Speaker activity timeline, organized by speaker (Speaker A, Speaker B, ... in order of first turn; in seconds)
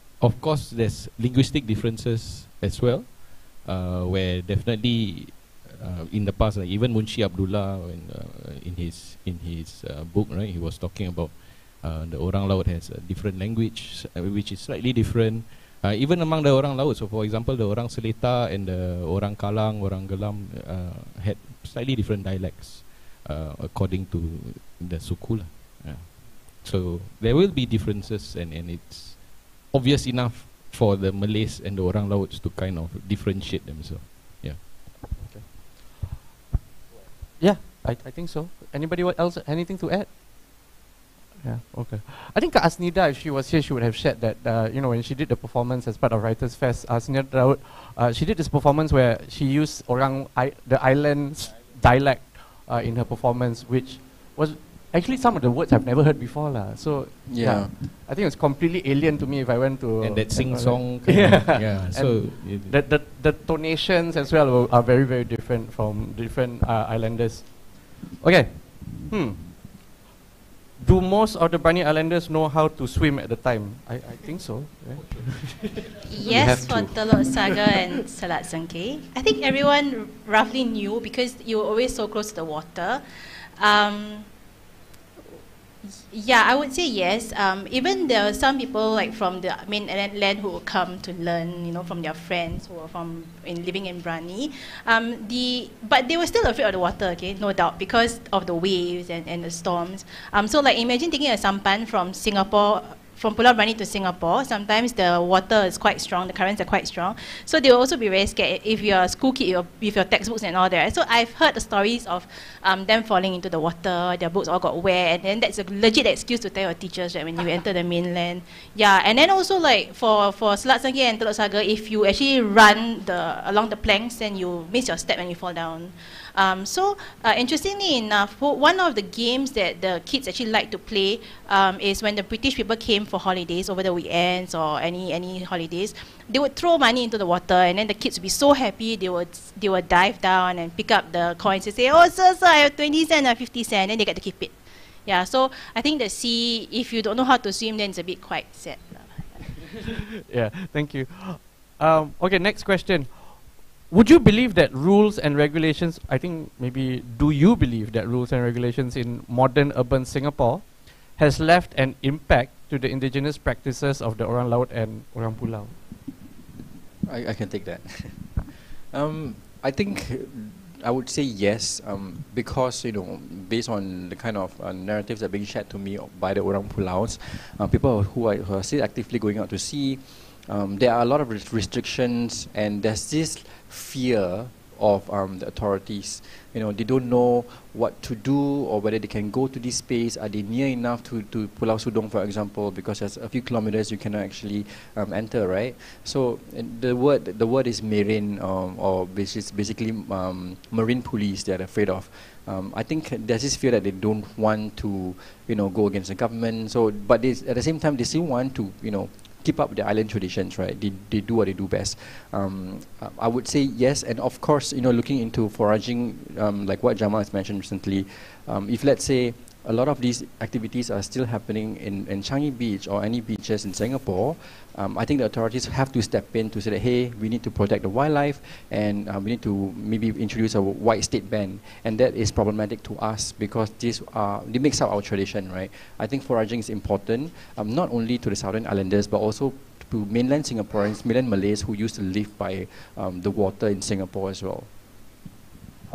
Speaker A: 0.2-34.6, 60.0-62.8, 76.2-77.4
Speaker B: 35.2-35.5, 37.4-40.1, 41.4-69.8, 70.8-75.9, 150.2-165.7
Speaker C: 57.3-57.7, 167.0-244.7
Speaker D: 76.0-83.0, 83.6-84.3, 85.8-149.6